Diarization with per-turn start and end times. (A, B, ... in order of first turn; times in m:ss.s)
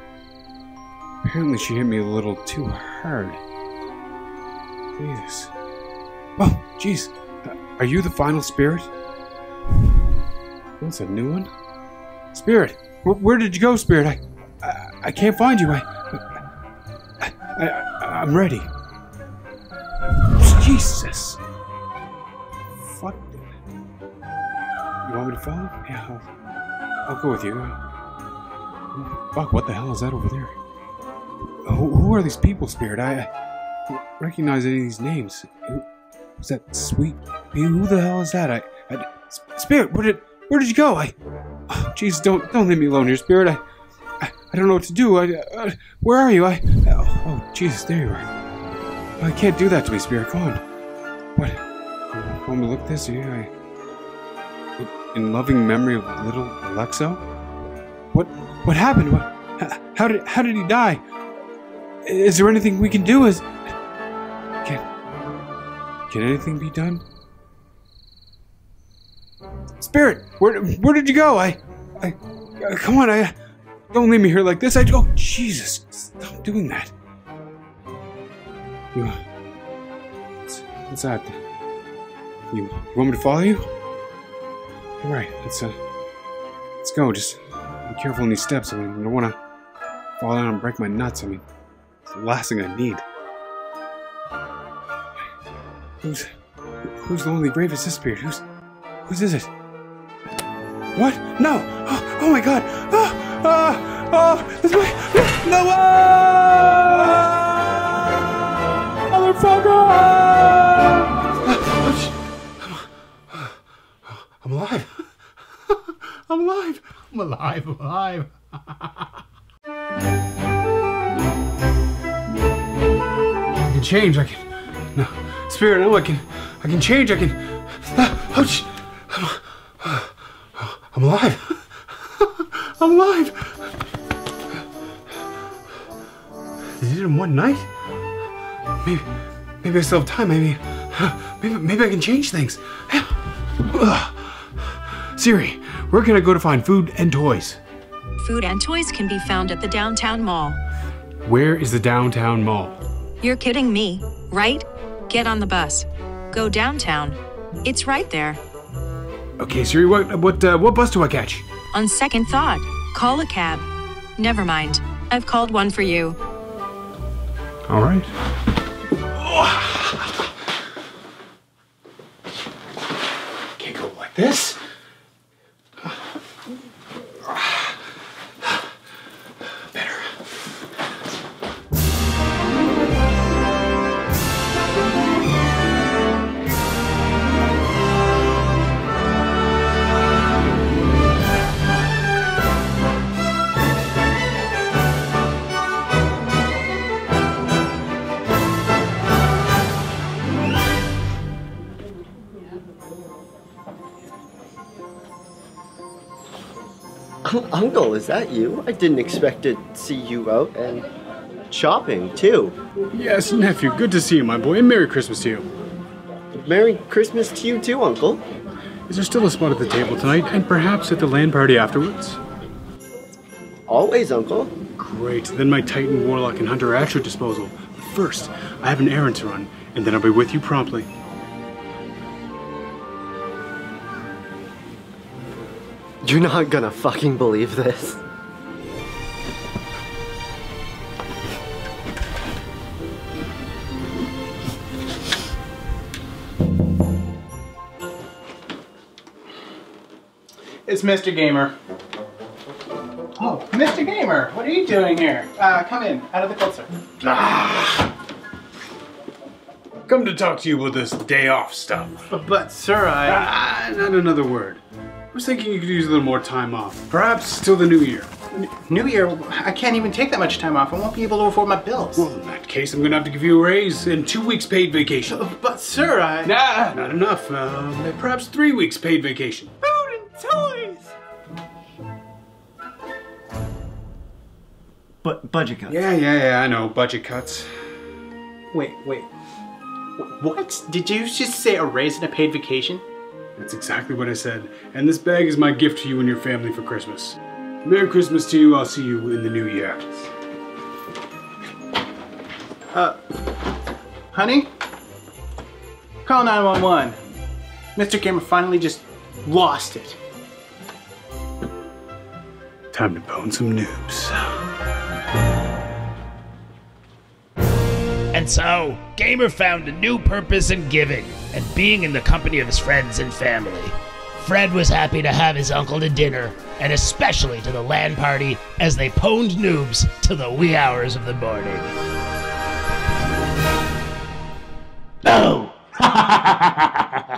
0:01.2-0:03.4 A
0:05.0-0:05.5 A
0:06.4-0:08.9 A
0:10.8-0:11.5 A
0:12.3-0:15.9 A
0:17.2-0:18.7 A
0:20.4-0:21.4 A
0:22.9-0:23.4 A
0:25.1-0:26.2 A
0:27.1-0:27.8 A
0:29.0-0:30.6 A
0:31.7-0:33.3 A
0:34.2-0:35.8 A
0:36.4-0:41.1 A
0:41.7-0:43.6 A
0:44.2-0:48.2 A
0:49.2-0:50.6 A
0:52.1-0:53.5 A
0:54.8-0:57.2 A
0:58.1-1:01.0 A
1:02.1-1:03.4 A
1:06.1-1:07.0 A
1:09.8-1:13.3 A
1:13.9-1:16.9 A
1:20.5-1:21.4 A
1:22.5-1:23.6 A
1:25.0-1:25.8 A
1:26.8-1:27.4 A
1:27.9-1:29.4 A
1:30.2-1:31.4 A
1:32.1-1:33.0 A
1:37.0-1:38.4 A
1:39.1-1:39.5 A
1:41.0-1:47.5 A
1:49.1-1:53.5 A
1:54.1-1:55.0 A
1:56.1-1:59.0 A
2:03.6-2:11.6 A
2:12.2-2:13.6 A
2:16.8-2:17.7 A
2:19.6-2:27.6 A
2:28.2-2:30.6 B
2:31.2-2:32.8 A
2:33.2-2:38.4 B
2:39.4-2:41.5 A
2:41.7-2:46.2 B
2:47.7-2:48.1 A
2:49.1-2:50.1 A
2:53.6-2:54.6 A
2:57.2-2:57.7 A
2:59.7-3:00.2 A
3:27.2-3:30.9 C
3:31.5-3:32.6 C
3:32.9-3:35.5 A
3:36.4-3:38.2 C
3:38.9-3:42.2 A
3:43.7-3:44.5 C
3:44.8-3:50.9 A
3:56.0-3:58.0 C
4:10.7-4:11.5 D
4:13.2-4:16.7 D
4:17.0-4:17.9 A
4:19.9-4:22.0 A
4:22.1-4:23.3 D
4:23.0-4:28.1 A
4:28.4-4:32.1 D
4:32.0-4:35.2 A
4:35.0-4:36.3 D
4:36.2-4:39.5 A
4:39.6-4:40.9 D
4:45.0-4:45.8 C
4:45.7-4:47.5 A
4:48.5-4:49.1 D
4:50.0-4:52.8 D
4:53.4-5:00.1 A
5:02.7-5:03.0 D
5:04.1-5:04.5 D
5:06.0-5:07.0 D
5:07.8-5:10.0 D
5:12.7-5:14.4 A
5:18.1-5:31.7 E
5:35.0-5:37.0 E